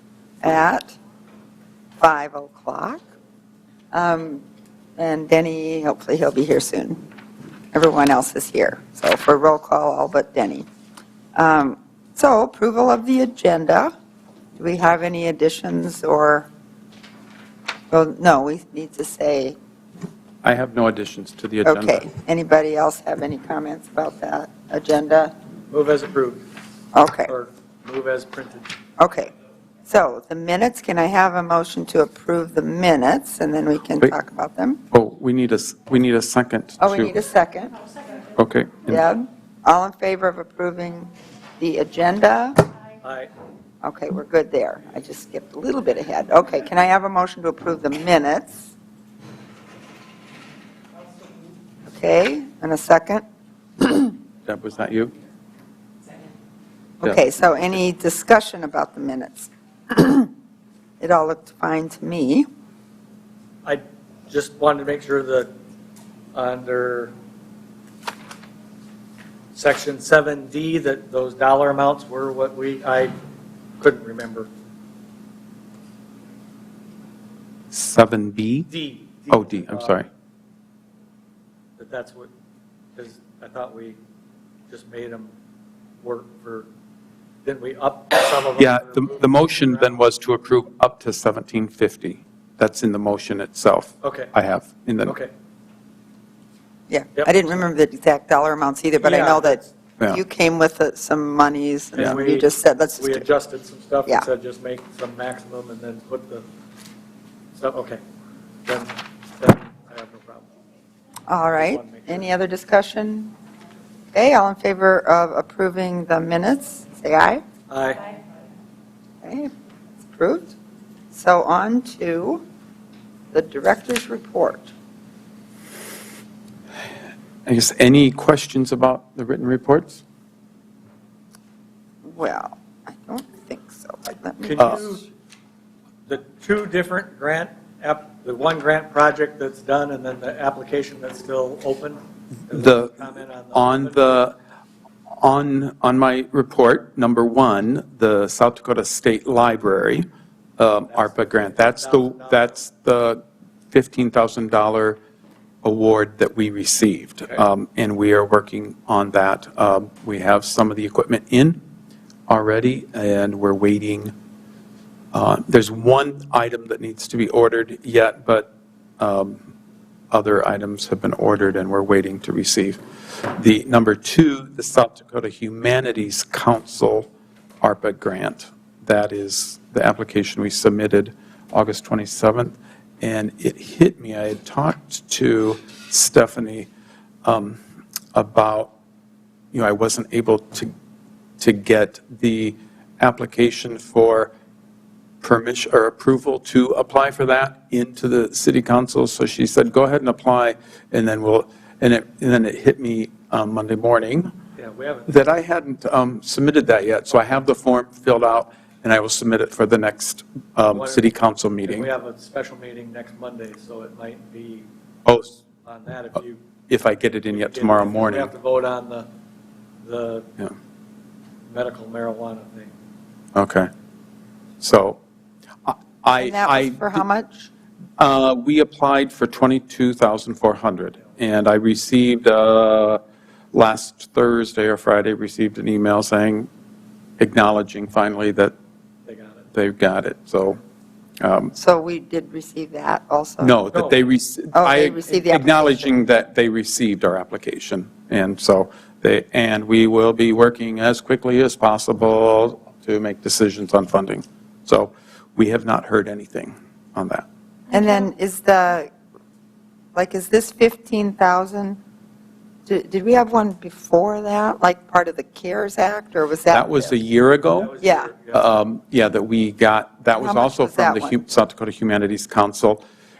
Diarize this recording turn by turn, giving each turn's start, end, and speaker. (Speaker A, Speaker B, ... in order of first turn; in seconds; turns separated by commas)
Speaker A: 0.4-1.0, Speaker A: 2.0-3.0, Speaker A: 3.9-4.4, Speaker A: 5.0-7.0, Speaker A: 7.7-10.7, Speaker A: 11.3-13.9, Speaker A: 14.6-16.5, Speaker A: 17.9-19.6, Speaker B: 20.4-22.1, Speaker A: 21.6-25.3, Speaker C: 25.7-26.4, Speaker A: 26.9-27.3, Speaker C: 27.3-28.7, Speaker A: 29.0-29.3, Speaker A: 29.9-34.8, Speaker B: 34.9-37.1, Speaker A: 36.8-37.7, Speaker B: 38.3-39.0, Speaker A: 38.9-42.6, Speaker C: 43.0-43.3, Speaker A: 43.8-48.7, Speaker A: 51.9-53.2, Speaker A: 53.8-54.2, Speaker B: 54.5-55.1, Speaker A: 57.0-60.3, Speaker A: 61.0-62.5, Speaker C: 63.6-65.5, Speaker C: 66.3-67.1, Speaker C: 69.5-73.1, Speaker C: 73.8-74.5, Speaker B: 77.7-78.7, Speaker C: 78.7-80.0, Speaker B: 79.3-80.1, Speaker C: 81.8-82.3, Speaker C: 83.0-84.0, Speaker C: 84.7-85.3, Speaker C: 86.0-86.7, Speaker C: 87.4-90.0, Speaker B: 88.5-95.1, Speaker C: 94.0-94.3, Speaker C: 95.0-95.3, Speaker A: 96.9-103.2, Speaker C: 99.0-99.7, Speaker C: 101.9-106.5, Speaker C: 107.5-108.0, Speaker C: 108.7-110.5, Speaker A: 111.3-113.3, Speaker C: 111.5-112.3, Speaker A: 114.1-117.4, Speaker C: 117.7-118.1, Speaker A: 119.2-120.5, Speaker A: 121.1-122.4, Speaker A: 123.3-124.7, Speaker B: 127.5-130.0, Speaker A: 132.0-135.0, Speaker C: 134.4-135.1, Speaker C: 136.1-144.3, Speaker B: 142.5-144.3, Speaker B: 145.2-150.1, Speaker B: 150.6-155.0, Speaker C: 150.8-152.6, Speaker B: 155.6-161.6, Speaker B: 162.3-164.1, Speaker B: 165.1-169.4, Speaker B: 170.1-177.1, Speaker B: 177.6-186.7, Speaker B: 187.2-187.6, Speaker B: 188.1-188.7, Speaker B: 189.5-190.7, Speaker B: 191.4-194.3, Speaker B: 195.2-204.3, Speaker C: 204.6-205.1, Speaker B: 205.1-211.9, Speaker C: 210.7-214.7, Speaker B: 215.1-215.4, Speaker C: 215.6-216.4, Speaker B: 216.7-218.3, Speaker C: 217.3-219.1, Speaker C: 219.8-220.3, Speaker C: 221.5-222.7, Speaker B: 223.3-223.7, Speaker B: 224.6-225.0, Speaker B: 225.6-227.1, Speaker A: 226.2-227.5, Speaker B: 228.0-233.0, Speaker B: 233.5-236.5, Speaker B: 237.2-238.5, Speaker C: 239.1-239.4, Speaker B: 239.5-240.6, Speaker B: 241.2-241.5, Speaker A: 241.5-243.6, Speaker B: 243.4-257.2, Speaker C: 243.7-244.0, Speaker A: 244.5-245.9, Speaker A: 257.7-258.9, Speaker A: 259.9-261.8, Speaker A: 262.6-267.0, Speaker B: 266.5-267.7, Speaker C: 267.6-268.5, Speaker A: 267.8-268.1, Speaker B: 268.3-272.8, Speaker A: 270.1-271.2